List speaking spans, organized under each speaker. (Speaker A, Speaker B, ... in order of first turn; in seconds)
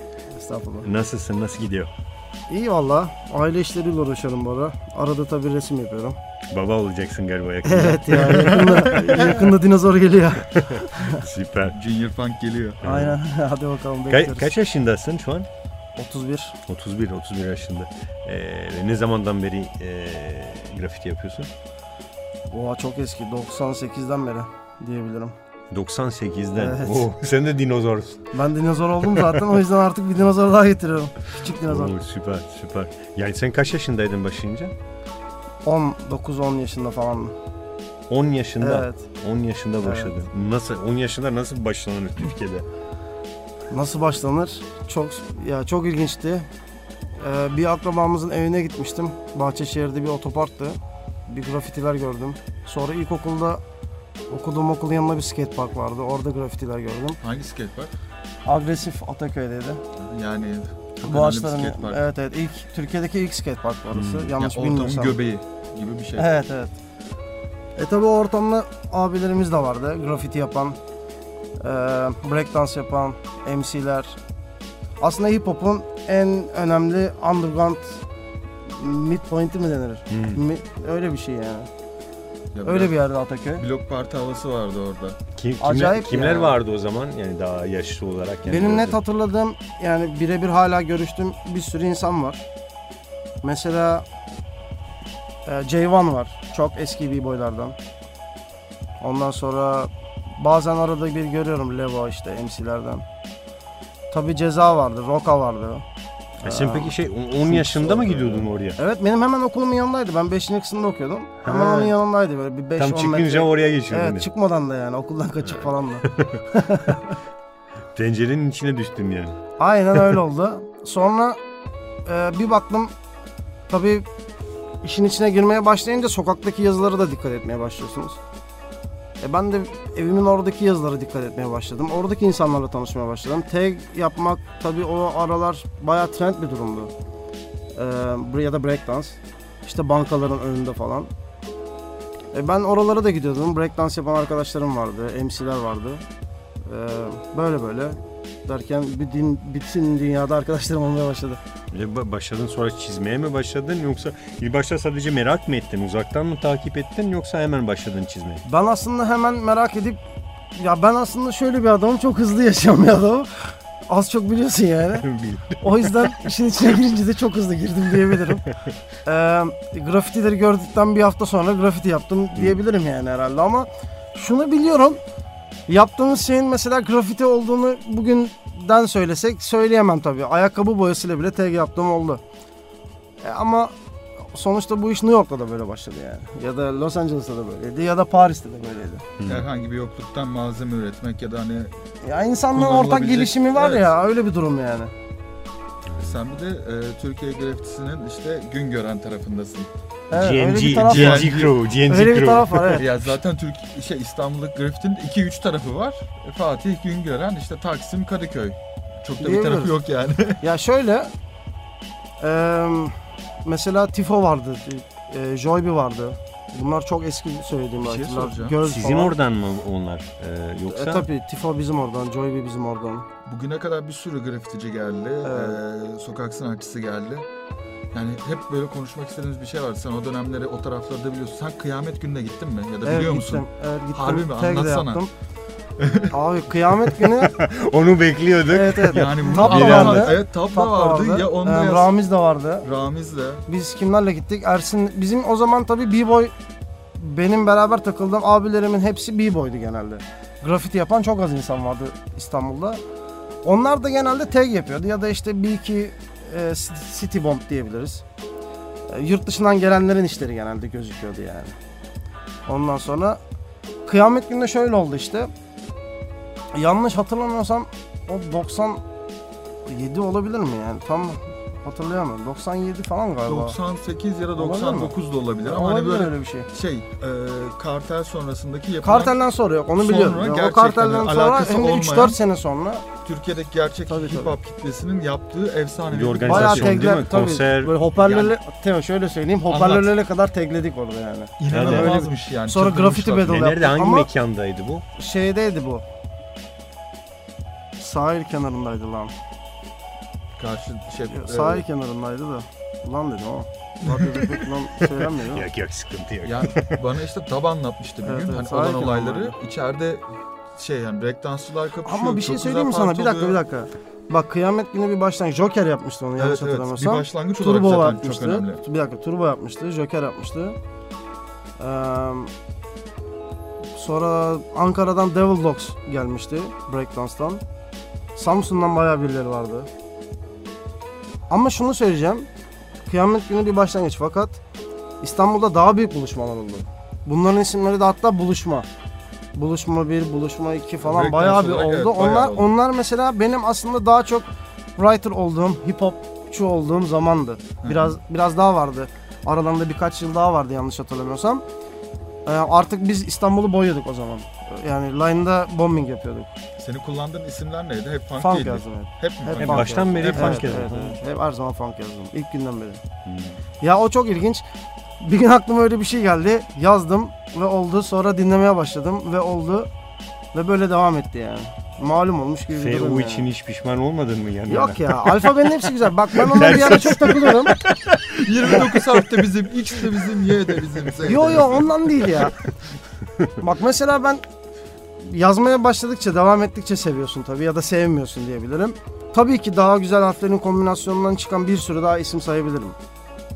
Speaker A: 0.3-0.9, 2.5-6.2, 7.6-11.2, 12.8-14.5, 16.0-16.6, 22.5-25.3, 26.6-27.1, 28.3-31.9, 35.6-37.3, 38.6-39.0, 39.8-40.1, 43.7-46.5, 47.2-50.8, 51.3-53.6, 54.3-57.2, 58.5-59.8, 61.0-65.2, 66.2-66.7, 67.8-70.8, 71.6-74.2, 75.0-78.0, 78.7-81.7, 82.6-83.6, 85.6-86.5, 88.5-92.4, 93.4-94.0, 95.5-97.8, 99.0-103.0, 104.1-105.8, 106.4-106.9, 107.5-117.1, 119.6-121.4, 122.0-122.9, 123.7-124.0, 124.8-128.2, 129.2-136.9, 137.7-141.1, 142.3-146.0, 146.7-151.4, 158.4-160.0, 160.5-165.1, 165.6-168.4, 169.0-175.0, 175.7-182.2, 183.2-183.7, 184.3-189.1, 192.0-194.9, 200.1-202.9, 209.2-209.7, 210.4-211.1, 212.2-219.1, 220.7-223.1, 225.2-225.6, 232.8-235.1, 236.1-237.4, 238.5-242.7, 243.5-246.3, 247.0-252.8, 253.4-258.0, 258.9-261.5, 262.5-263.2, 263.9-265.3, 266.5-268.8, 269.6-273.6, 274.4-276.5, 278.8-282.9, 283.9-284.3, 286.2-294.1, 295.0-295.8, 297.8-299.1, 301.1-305.4, 308.0-309.3, 311.8-320.6, 321.6-322.3, 323.8-327.4, 328.1-329.7, 331.3-332.3, 332.9-334.4, 335.0-338.7, 339.3-351.4, 352.2-356.3, 358.2-362.8, 363.6-364.4, 365.0-369.7, 370.3-373.3, 374.5-377.6, 381.0-382.4, 383.4-384.2, 385.0-392.8
Speaker B: 0.8-1.9, 6.5-9.3, 10.4-11.7, 12.8-13.2, 14.1-15.5, 16.7-21.5, 25.7-28.2, 29.1-29.5, 31.5-34.7, 38.1-42.7, 63.9-64.3, 80.1-80.4, 85.4-89.0, 106.4-108.8, 111.4-111.9, 112.8-114.3, 115.6-117.0, 117.9-119.4, 151.7-158.4, 165.0-166.2, 189.2-189.4, 195.9-196.2, 200.1-202.8, 218.6-221.1, 237.1-240.2, 285.9-287.7, 291.5-291.9, 293.2-294.8, 305.0-306.8, 359.4-361.0, 363.1-363.4, 372.5-377.9, 378.5-379.0, 383.0-383.3
Speaker C: 8.5-9.3, 11.7-12.8, 57.2-57.9, 60.0-62.0, 64.4-66.3, 82.5-82.9, 83.6-85.2, 189.2-191.7, 192.5-193.9, 196.0-199.7, 200.7-201.5, 202.7-210.4, 217.8-218.6, 223.2-227.3, 227.9-235.0, 235.8-236.2, 238.9-241.9, 242.6-243.4, 273.2-279.2, 279.8-282.2, 283.0-286.9, 287.9-288.3, 289.5-289.9, 291.4-293.5, 300.4-301.6, 303.8-304.5, 306.2-310.0, 310.6-313.4, 316.2-318.6, 340.8-342.5, 347.6-348.0, 356.6-360.6, 377.9-382.3